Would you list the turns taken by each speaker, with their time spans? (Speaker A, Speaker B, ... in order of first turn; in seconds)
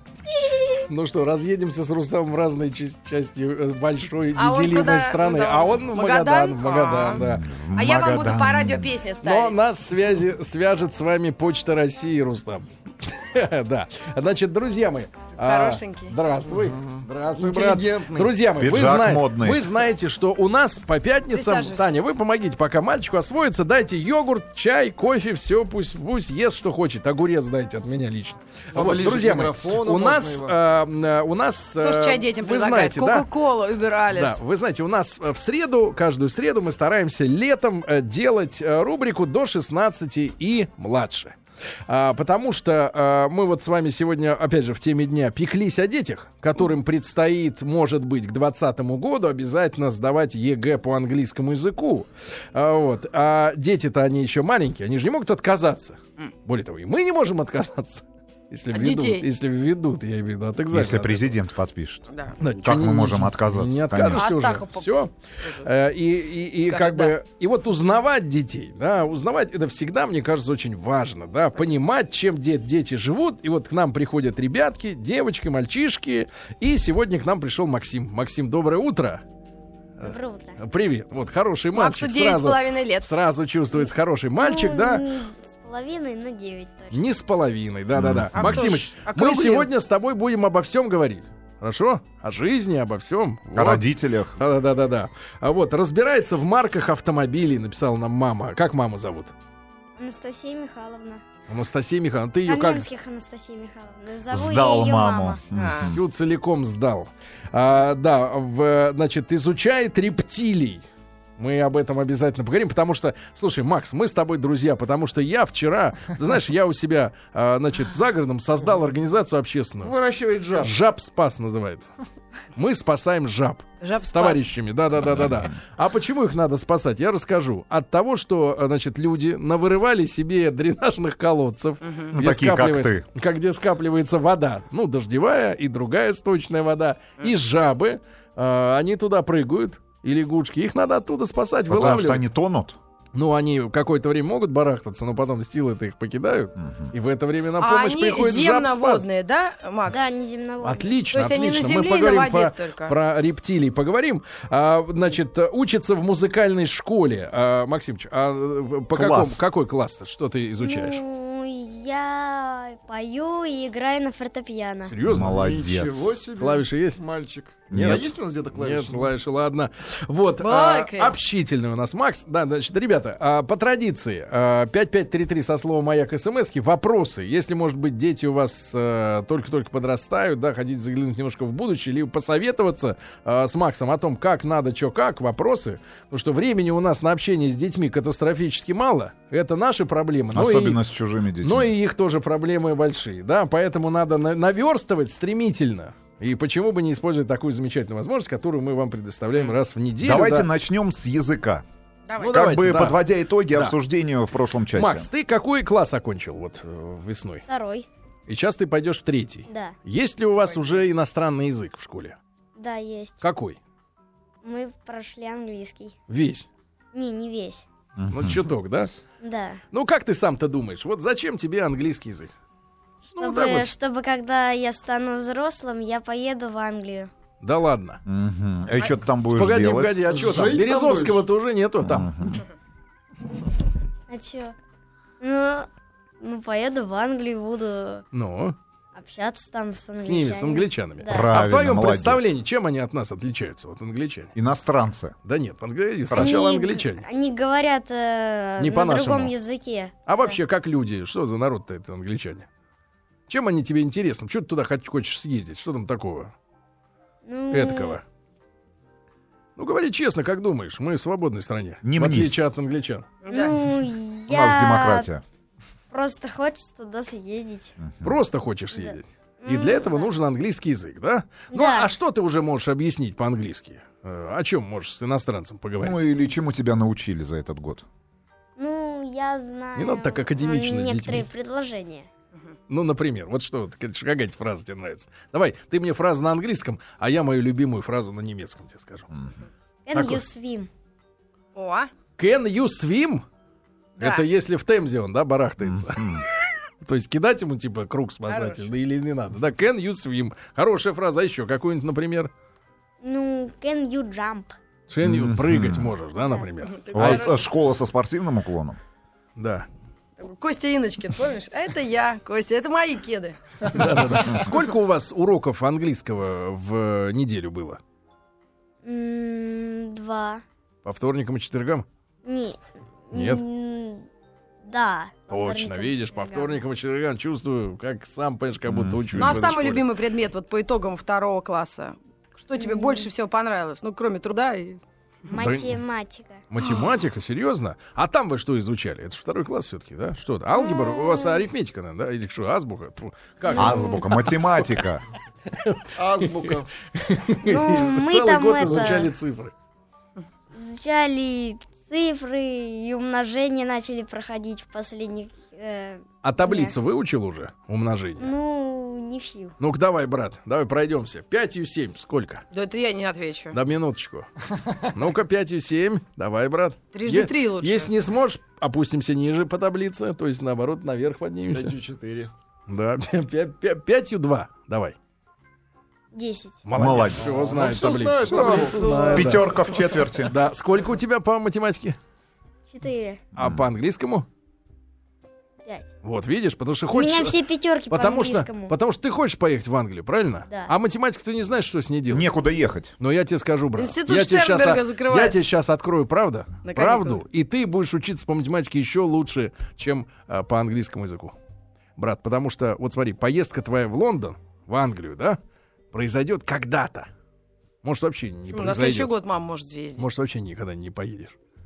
Speaker A: 0.8-7.5, 9.2-33.3, 34.1-41.4, 41.9-61.4, 62.4-79.2, 80.0-85.1, 86.9-99.3, 101.5-102.9, 105.7-110.8, 111.4-120.0, 120.6-121.9, 122.5-142.2, 143.2-149.1, 150.6-161.0, 164.9-165.5, 166.4-167.0, 168.5-190.8, 191.4-200.5, 202.2-203.8, 204.7-207.5, 208.3-212.2, 213.2-213.6, 216.1-216.5, 218.1-218.9, 219.7-222.3, 223.1-223.7, 227.4-228.0, 229.3-232.4, 238.1-238.6, 240.0-244.3, 245.2-247.1, 248.6-249.3, 250.1-252.5, 253.3-256.3, 257.5-258.0, 259.6-263.1, 268.0-276.1, 279.8-281.3, 282.7-289.1, 289.9-290.2, 292.2-293.2, 294.0-296.2, 296.8-302.3, 304.9-307.4, 309.4-309.7, 313.7-317.8, 320.8-321.9, 323.1-323.4, 325.3-329.9, 335.3-335.8, 336.5-344.8, 345.5-349.5, 356.2-358.3, 359.6-362.4, 363.5-364.3, 364.9-371.8, 372.7-375.0, 376.6-382.0, 383.4-384.3, 386.0-387.4, 387.9-392.3, 393.0-401.4, 402.0-405.4, 405.9-407.1, 407.8-409.1, 410.0-411.4
Speaker B: 4.4-7.2, 7.7-9.6, 15.4-16.1, 21.3-21.9, 31.8-34.4, 58.7-59.2, 62.1-62.4, 64.1-64.9, 66.7-67.1, 81.7-83.1, 88.3-89.7, 105.5-105.9, 123.8-124.4, 131.8-132.1, 147.6-150.0, 151.1-153.0, 170.4-171.2, 202.1-202.4, 210.5-210.8, 263.2-263.6, 291.6-291.9, 294.0-294.3, 298.3-298.7, 306.6-307.5, 310.2-313.7, 329.2-334.8, 336.6-336.9, 362.5-363.6, 366.9-367.9, 393.8-395.4, 396.6-397.2, 408.5-410.1
Speaker C: 7.2-8.9, 18.6-19.7, 60.7-62.0, 62.6-64.3, 88.0-88.7, 93.5-94.4, 104.3-106.0, 125.0-125.5, 132.1-133.1, 141.7-142.8, 146.6-146.9, 158.9-159.4, 165.1-166.1, 167.7-168.1, 190.3-191.7, 200.0-201.7, 202.3-205.1, 218.0-218.5, 228.1-230.0, 231.8-232.4, 241.1-242.4, 244.3-245.2, 246.1-246.4, 261.8-262.4, 264.3-265.2, 267.8-268.2, 275.8-277.9, 295.6-296.3, 305.0-305.9, 306.9-308.8, 328.7-329.5, 343.5-345.0, 376.8-377.4, 379.1-380.3, 383.4-383.6, 392.1-392.9
Speaker D: 16.5-18.4, 28.7-30.6, 119.8-120.8, 165.3-169.1, 230.1-231.2, 346.0-346.7, 371.5-372.3, 377.2-379.6
Speaker E: 80.0-80.6, 84.4-87.0, 100.0-101.2, 102.5-105.4, 149.9-151.0, 160.6-164.9, 207.5-207.9, 209.5-209.8, 212.6-213.2, 214.4-215.9, 216.9-217.7, 219.2-219.6, 223.2-227.1, 234.1-234.6, 235.2-235.7, 236.2-238.1, 238.9-241.3, 246.1-250.4, 257.2-258.0, 263.3-265.1, 265.9-267.8, 268.7-270.1, 271.5-271.9, 278.6-282.1, 289.9-290.7, 303.0-304.6, 318.8-320.4, 322.2-322.6, 323.1-324.1, 324.6-326.6, 332.6-333.1, 335.3-336.4, 340.5-341.4, 343.5-344.1, 347.4-349.1, 350.5-356.8, 358.2-359.6, 376.1-376.6, 382.7-383.2, 386.9-388.8